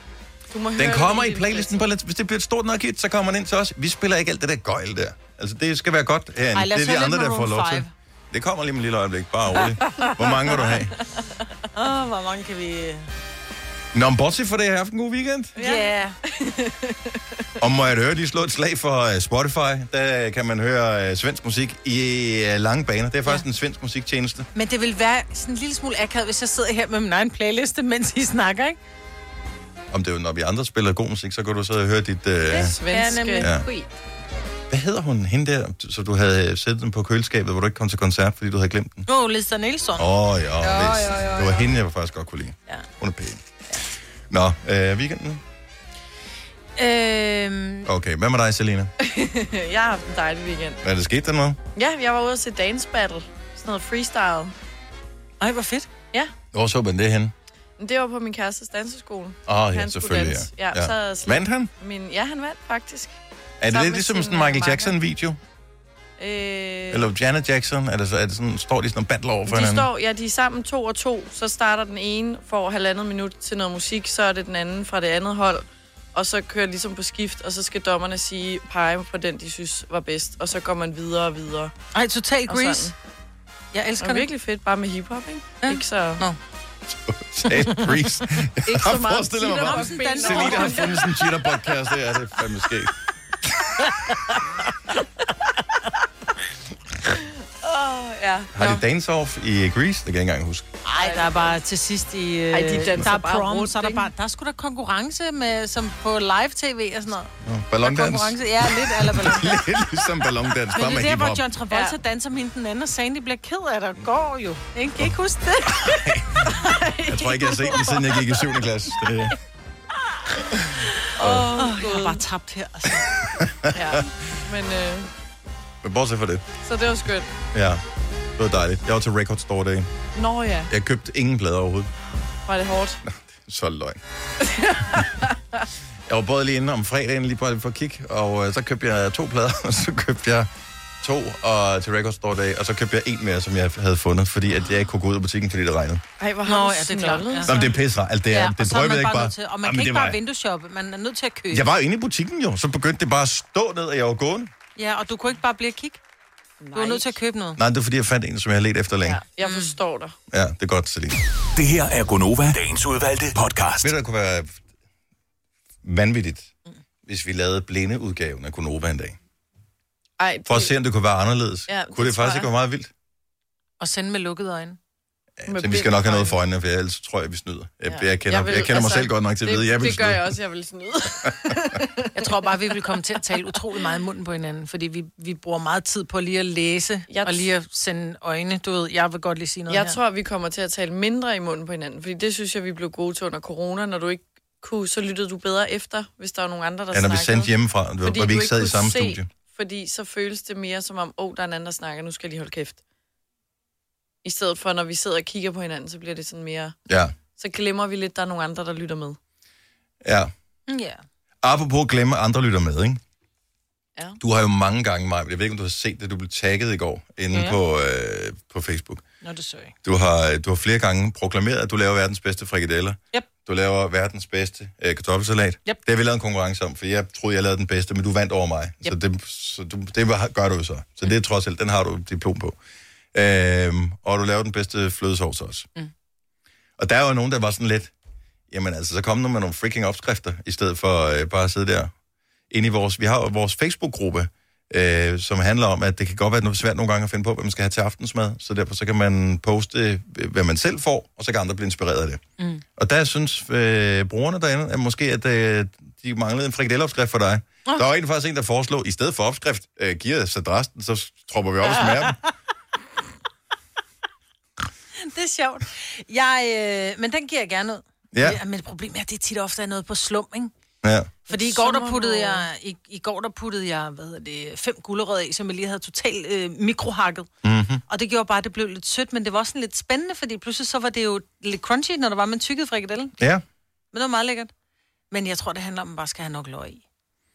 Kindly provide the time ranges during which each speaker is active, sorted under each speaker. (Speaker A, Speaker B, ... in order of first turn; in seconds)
Speaker A: 0.5-1.9, 15.6-17.2, 32.5-33.5, 49.0-50.8, 51.8-54.5, 57.8-63.2, 63.7-64.9, 66.2-67.1, 69.5-81.7, 82.5-82.9, 84.0-86.2, 88.7-91.0, 97.6-98.8, 101.0-101.5, 102.5-104.1, 116.6-118.0, 121.2-122.2, 123.7-125.1, 126.6-127.3, 130.2-130.7, 132.5-133.0, 134.5-135.3, 146.2-147.7, 156.6-157.1, 159.1-160.2, 170.2-170.7, 171.7-172.5, 175.5-176.4, 177.9-182.1, 187.1-187.5, 189.7-197.5, 198.0-202.8, 204.2-206.8, 207.4-209.2, 271.3-272.4
Speaker B: 0.8-10.9, 13.9-15.5, 17.6-24.5, 29.9-32.8, 33.4-33.6, 34.7-39.0, 40.0-43.4, 44.3-45.4, 47.9-48.9, 50.8-51.6, 56.5-57.3, 59.5-61.7, 63.6-65.4, 66.9-69.9, 86.9-92.9, 93.4-93.7, 98.5-100.7, 107.4-111.4, 115.8-116.5, 117.1-119.3, 121.2-121.5, 123.4-124.0, 125.8-126.4, 127.5-127.8, 128.4-129.9, 130.7-131.9, 133.1-134.0, 136.1-140.5, 141.0-146.0, 147.5-150.2, 151.5-154.5, 157.6-159.2, 160.3-161.2, 163.8-164.6, 165.8-166.5, 167.1-169.2, 170.4-172.9, 175.4-180.4, 196.9-199.3, 206.9-207.1, 210.0-210.3, 211.4-213.0, 214.2-219.0, 219.8-232.6, 233.1-235.7, 236.8-237.9, 238.5-241.9, 242.5-252.2, 252.8-262.2, 268.1-268.4, 270.8-271.2, 277.4-277.8
Speaker C: 6.5-7.9, 11.8-13.1, 15.6-16.1, 24.6-28.8, 32.6-33.9, 39.1-40.1, 40.7-41.4, 46.8-47.9, 55.4-55.9, 81.9-82.9, 83.7-84.3, 85.6-86.4, 87.7-88.0, 89.5-91.0, 100.8-107.3, 107.8-109.6, 110.7-116.0, 121.6-123.1, 146.4-147.6, 148.3-151.7, 154.8-156.0, 156.7-157.6, 159.4-159.8, 173.8-174.8, 182.2-190.0, 210.7-211.0, 217.3-217.6, 219.2-219.7, 261.8-262.1, 265.0-270.5, 271.3-277.3, 277.9-283.1, 283.9-284.5, 285.1-286.8
Speaker D: 161.5-163.9